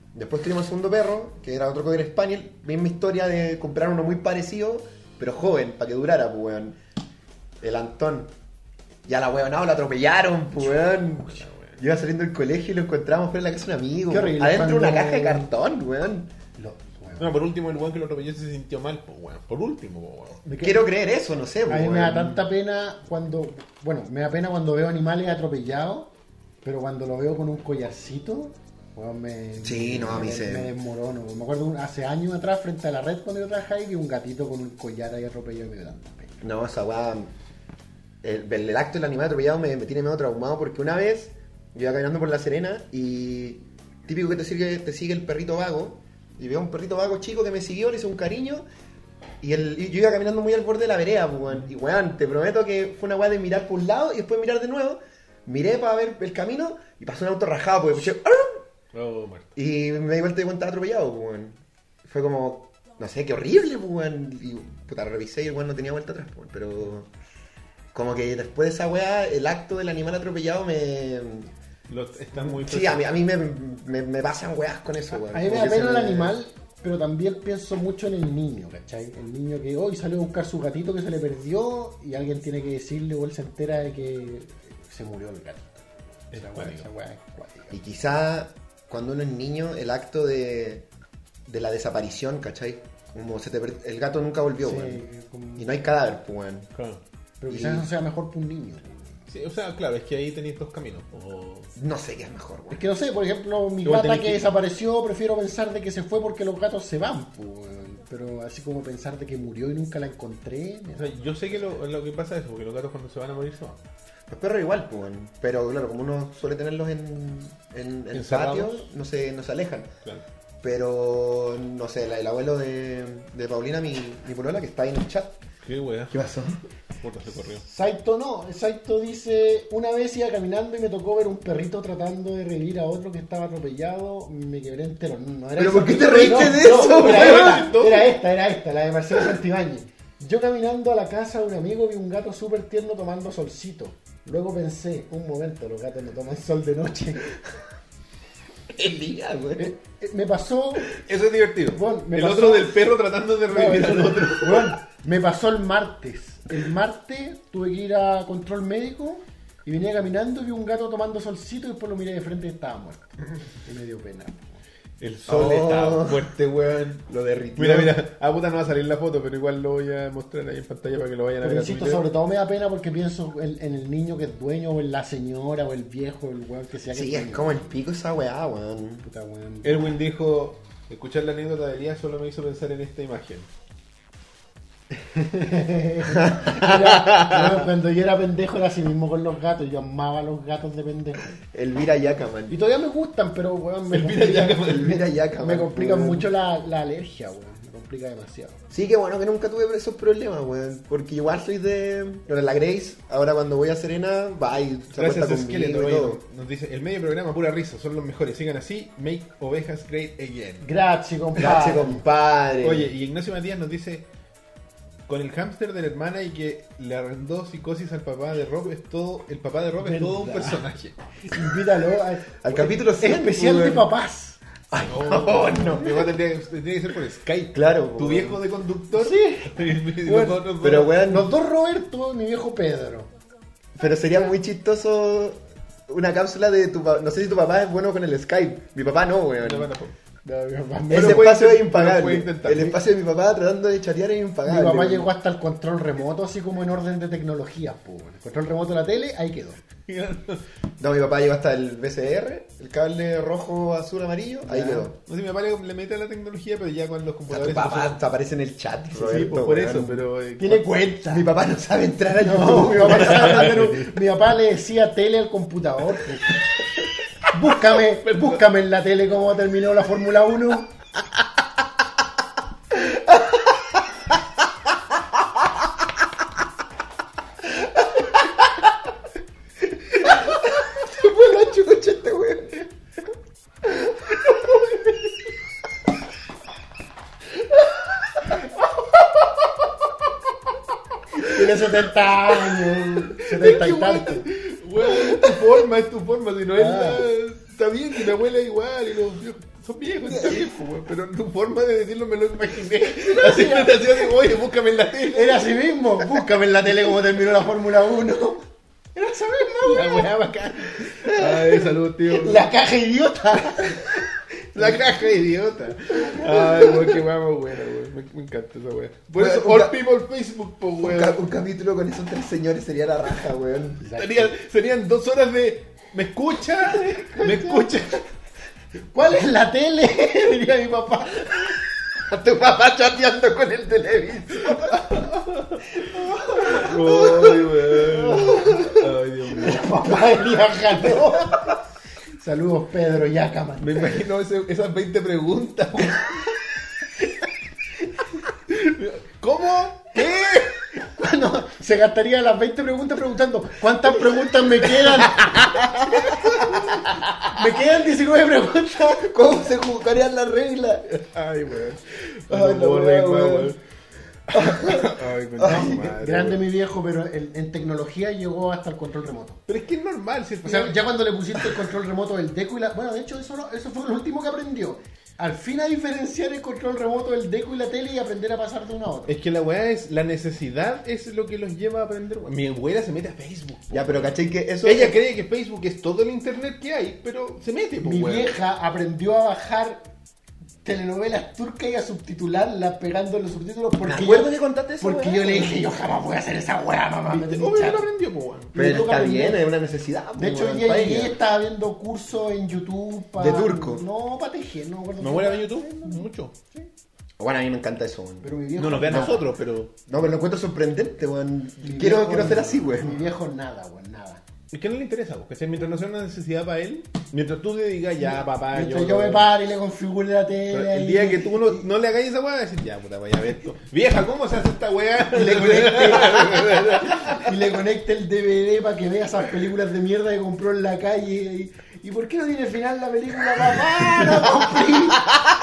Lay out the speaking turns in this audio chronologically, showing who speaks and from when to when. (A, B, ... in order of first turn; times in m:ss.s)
0:00.1-0:06.8 A
0:07.6-0:08.3 A
0:09.1-0:16.3 A
0:11.3-0:11.8 B
0:14.1-0:15.5 C
0:16.6-0:17.4 C
0:17.2-0:20.4 B
0:20.4-0:20.8 C
0:20.6-0:22.4 A
0:21.7-0:26.1 C
0:26.6-0:36.4 C
0:29.6-0:30.7 A
0:36.4-0:37.3 A
0:38.2-0:48.6 A
0:49.4-0:58.6 A
0:58.9-0:59.5 B
0:59.6-1:07.1 A
1:07.9-1:11.5 A
1:11.9-1:13.2 B
1:12.3-1:16.4 A
1:15.1-1:27.8 C
1:26.3-1:26.9 B
1:27.7-1:30.9 A
1:31.5-1:35.0 A
1:34.6-1:35.8 C
1:35.6-1:36.7 A
1:36.8-1:37.0 B
1:37.4-1:39.3 C
1:37.5-1:37.9 A
1:39.3-1:41.7 B
1:41.8-1:42.8 A
1:42.7-1:51.7 C
1:43.8-1:44.5 B
1:51.0-1:53.8 B
1:54.3-1:59.9 A
1:58.1-1:58.9 B
2:00.6-2:05.4 A
2:05.6-2:06.2 B
2:06.1-2:06.6 A
2:07.0-2:07.6 B
2:07.6-2:27.3 C
2:15.6-2:17.8 A
2:16.0-2:18.1 B
2:28.7-2:29.7 A
2:29.6-2:30.9 C
2:30.9-2:34.8 B
2:31.7-2:32.8 C
2:33.5-2:44.6 C
2:45.0-2:52.0 B
2:45.3-2:46.3 A
2:47.3-2:47.9 A
2:51.4-2:57.8 C
2:56.9-2:59.1 A
2:59.0-2:59.8 C
2:59.6-3:03.5 B
3:04.9-3:11.3 C
3:06.1-3:07.6 A
3:11.5-3:12.6 A
3:12.5-3:18.6 C
3:13.9-3:15.0 B
3:14.6-3:16.3 A
3:18.7-3:26.2 A
3:24.9-3:30.7 B
3:30.6-3:32.0 C
3:31.4-3:32.9 A
3:32.6-3:34.1 B
3:35.1-3:41.0 B
3:39.8-3:40.6 C
3:41.2-3:44.4 C
3:42.4-3:43.9 A
3:44.7-3:46.0 A
3:44.9-3:51.0 B
3:47.5-3:48.4 A
3:49.0-3:53.1 C
3:50.6-3:51.3 A
3:53.8-3:59.7 A
3:59.4-4:00.0 B
4:00.2-4:01.3 C
4:00.9-4:02.8 B
4:00.9-4:05.1 A
4:04.4-4:09.6 C
4:09.8-4:10.4 B
4:10.8-4:15.0 A
4:14.5-4:14.9 C
4:14.9-4:18.0 B
4:17.3-4:20.0 A
4:19.0-4:19.3 C
4:19.0-4:20.9 B
4:20.4-4:21.3 C
4:21.1-4:23.8 A
4:22.2-4:26.4 C
4:23.0-4:23.7 B
4:27.3-4:30.7 C
4:32.7-4:33.7 A
4:37.6-4:38.2 A
4:39.8-4:42.7 A
4:51.2-4:54.3 C
4:52.5-5:05.5 B
4:55.0-4:55.4 C
4:56.6-4:57.1 C
5:02.9-5:04.1 C
5:05.1-5:10.1 C
5:09.4-5:12.5 B
5:10.7-5:14.0 C
5:14.5-5:21.2 B
5:14.6-5:14.8 C
5:15.9-5:16.9 C
5:19.2-5:19.8 A
5:20.8-5:23.8 A
5:23.8-5:24.3 C
5:24.0-5:28.1 B
5:26.7-5:27.7 C
5:28.9-5:31.6 C
5:32.1-5:34.8 A
5:34.5-5:35.8 B
5:36.0-5:37.5 A
5:36.4-5:39.8 B
5:37.8-5:38.7 C
5:39.3-5:41.5 C
5:42.2-5:44.0 C
5:43.6-5:46.3 B
5:48.5-5:50.7 B
5:51.0-5:55.6 C
5:56.1-5:56.4 B
5:57.2-5:59.0 C
5:58.8-6:00.9 A
6:00.9-6:03.6 B
6:02.3-6:03.5 A
6:04.3-6:06.4 B
6:04.3-6:04.9 A
6:05.4-6:09.4 C
6:09.5-6:10.8 B
6:10.4-6:19.2 C
6:19.1-6:28.4 B
6:23.7-6:25.0 A
6:27.8-6:29.9 C
6:30.6-6:37.9 C
6:33.8-6:35.6 A
6:37.1-6:38.6 B
6:38.5-6:39.4 C
6:38.5-6:41.2 A
6:40.2-6:46.7 C
6:43.2-6:43.8 A
6:45.0-6:46.4 B
6:47.2-6:49.2 A
6:48.2-6:49.3 C
6:48.6-6:49.7 B
6:49.9-6:53.1 A
6:51.6-6:54.2 C
6:54.5-6:59.3 B
6:58.1-7:01.6 C
7:00.5-7:07.4 B
7:05.1-7:15.0 C
7:13.6-7:14.2 B